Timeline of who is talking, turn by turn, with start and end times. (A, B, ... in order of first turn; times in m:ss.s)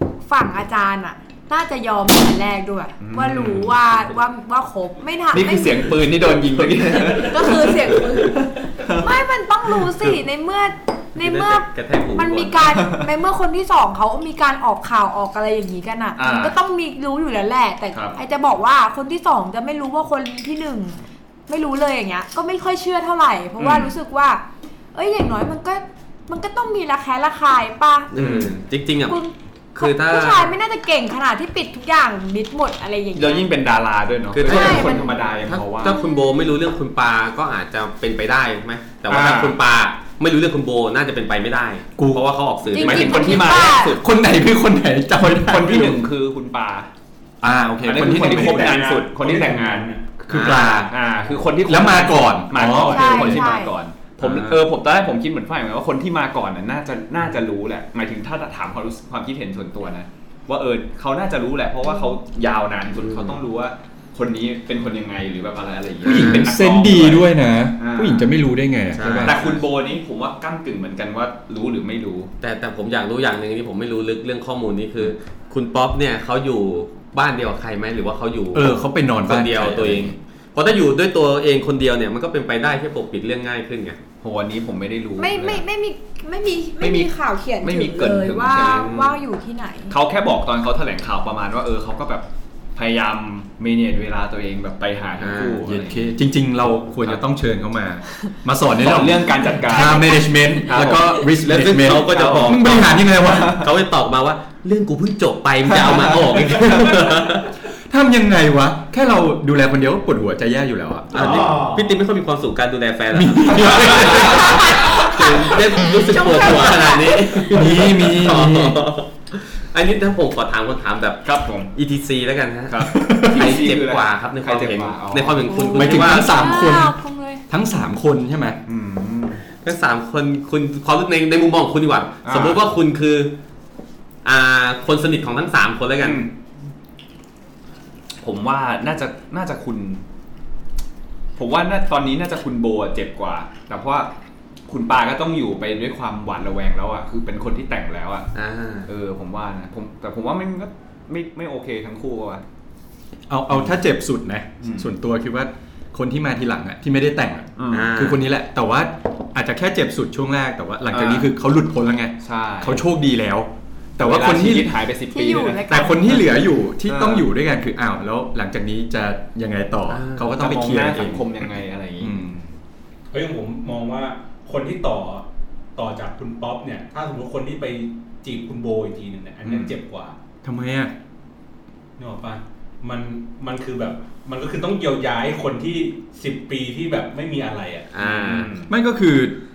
0:00.2-0:05.9 A
0:03.0-0:03.8 B
0:05.3-0:09.2 B
0:07.0-0:11.6 A
0:09.7-0:10.0 B
0:11.2-0:12.6 C
0:12.2-0:28.1 A
0:12.7-0:13.1 B
0:16.2-0:16.6 B
0:17.9-0:18.2 B
0:23.6-0:24.0 B
0:28.1-0:29.2 C
0:28.2-0:28.5 B
0:29.1-0:33.5 A
0:29.7-0:30.5 C
0:33.2-0:36.0 B
0:34.4-0:43.5 C
0:34.4-0:35.1 A
0:35.8-0:36.4 A
0:39.1-0:39.6 B
0:42.0-0:42.3 D
0:42.7-0:44.0 B
0:42.7-0:44.0 A
0:43.7-0:46.0 D
0:45.2-0:46.9 B
0:47.4-0:48.8 D
0:47.8-1:08.3 B
0:47.9-0:50.2 E
0:50.3-0:51.0 D
0:50.3-0:50.9 C
0:51.6-0:53.6 D
0:52.7-0:53.8 A
0:54.2-0:54.7 D
1:01.8-1:02.2 A
1:03.0-1:03.4 C
1:06.0-1:09.5 D
1:08.9-1:09.6 C
1:09.0-1:12.3 B
1:12.4-1:24.0 C
1:18.5-1:20.2 D
1:24.2-1:25.6 B
1:25.2-1:30.0 A
1:26.8-1:28.8 B
1:28.5-1:29.2 C
1:29.9-1:36.1 B
1:35.2-1:35.6 C
1:35.6-1:43.7 D
1:38.8-1:41.3 B
1:40.7-1:47.5 C
1:41.8-1:43.7 B
1:45.7-1:47.3 B
1:47.9-1:51.6 D
1:51.1-2:06.4 C
1:51.2-1:51.8 B
1:53.1-1:55.0 D
1:54.2-1:57.5 A
1:57.5-1:58.9 D
2:01.2-2:01.7 B
2:02.7-2:05.7 B
2:02.9-2:03.6 D
2:05.5-2:07.4 A
2:05.7-2:07.0 D
2:07.5-2:08.6 D
2:08.7-2:09.4 B
2:09.6-2:13.3 C
2:12.2-2:12.6 B
2:14.2-2:16.3 C
2:16.0-2:16.3 B
2:18.2-2:20.0 B
2:21.4-2:24.1 B
2:24.7-2:28.3 B
2:28.4-2:28.9 C
2:28.9-2:32.4 B
2:33.3-2:44.8 D
2:34.6-2:34.9 B
2:37.6-2:37.9 B
2:37.7-2:38.2 C
2:40.9-2:41.3 B
2:42.2-2:42.8 B
2:44.0-2:47.3 B
2:45.1-2:46.0 A
2:45.7-2:52.5 D
2:49.9-2:50.4 C
2:50.3-2:52.2 B
2:53.1-2:55.2 E
2:55.8-3:00.2 E
2:59.4-2:59.8 B
3:00.4-3:00.9 D
3:02.0-3:07.9 E
3:07.9-3:08.5 C
3:08.0-3:08.7 B
3:08.7-3:09.4 D